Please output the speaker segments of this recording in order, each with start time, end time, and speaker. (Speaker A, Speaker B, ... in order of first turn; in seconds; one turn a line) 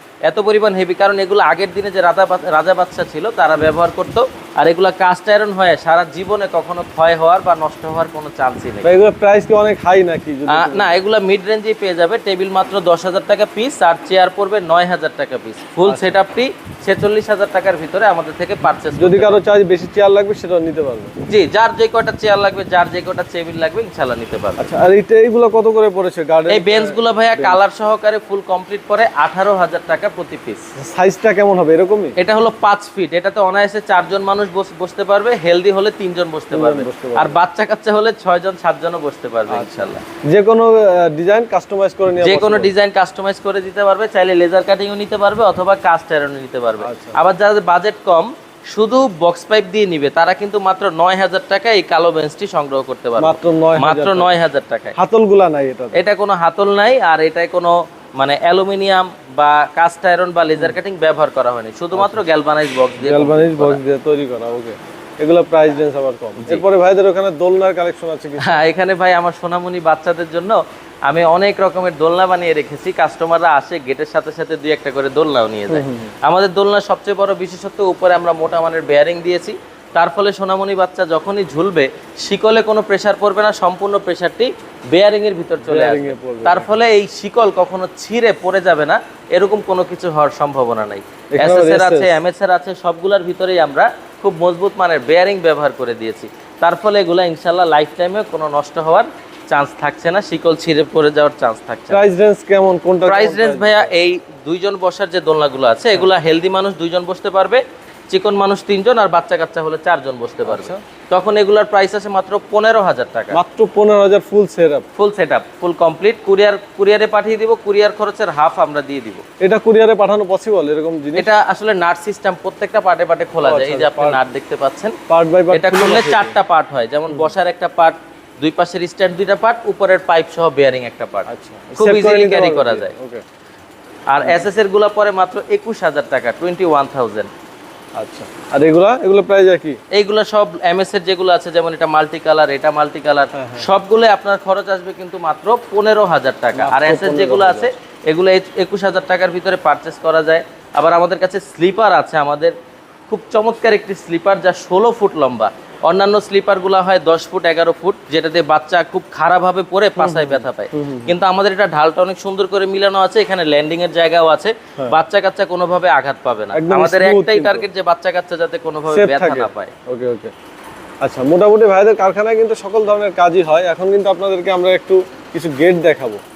Speaker A: 0.2-8.9
Speaker B: 8.8-10.9
Speaker A: 10.5-19.4
Speaker B: 15.8-16.2
Speaker B: 18.9-21.1
Speaker A: 21.3-24.7
Speaker B: 24.6-27.6
Speaker A: 26.5-30.6
Speaker B: 30.8-32.1
Speaker A: 32.2-40.0
Speaker B: 36.5-37.4
Speaker B: 39.5-42.7
Speaker A: 42.2-55.0
Speaker B: 46.8-47.2
Speaker B: 53.2-54.3
Speaker B: 55.0-56.0
Speaker A: 55.9-63.8
Speaker B: 61.9-62.2
Speaker B: 63.0-68.6
Speaker A: 68.4-102.0
Speaker B: 75.7-76.1
Speaker B: 85.6-86.7
Speaker B: 91.3-92.2
Speaker B: 101.9-103.9
Speaker A: 103.0-113.4
Speaker B: 110.5-110.8
Speaker B: 113.3-114.8
Speaker A: 115.0-119.2
Speaker B: 119.4-121.3
Speaker A: 121.2-125.0
Speaker B: 123.4-124.2
Speaker B: 125.1-126.3
Speaker A: 125.5-132.9
Speaker B: 131.3-133.2
Speaker A: 134.1-137.3
Speaker B: 138.0-139.8
Speaker A: 139.9-152.5
Speaker B: 143.3-143.7
Speaker B: 146.5-147.7
Speaker A: 153.1-169.7
Speaker B: 160.0-161.1
Speaker B: 166.5-167.7
Speaker B: 168.9-170.3
Speaker B: 171.0-176.2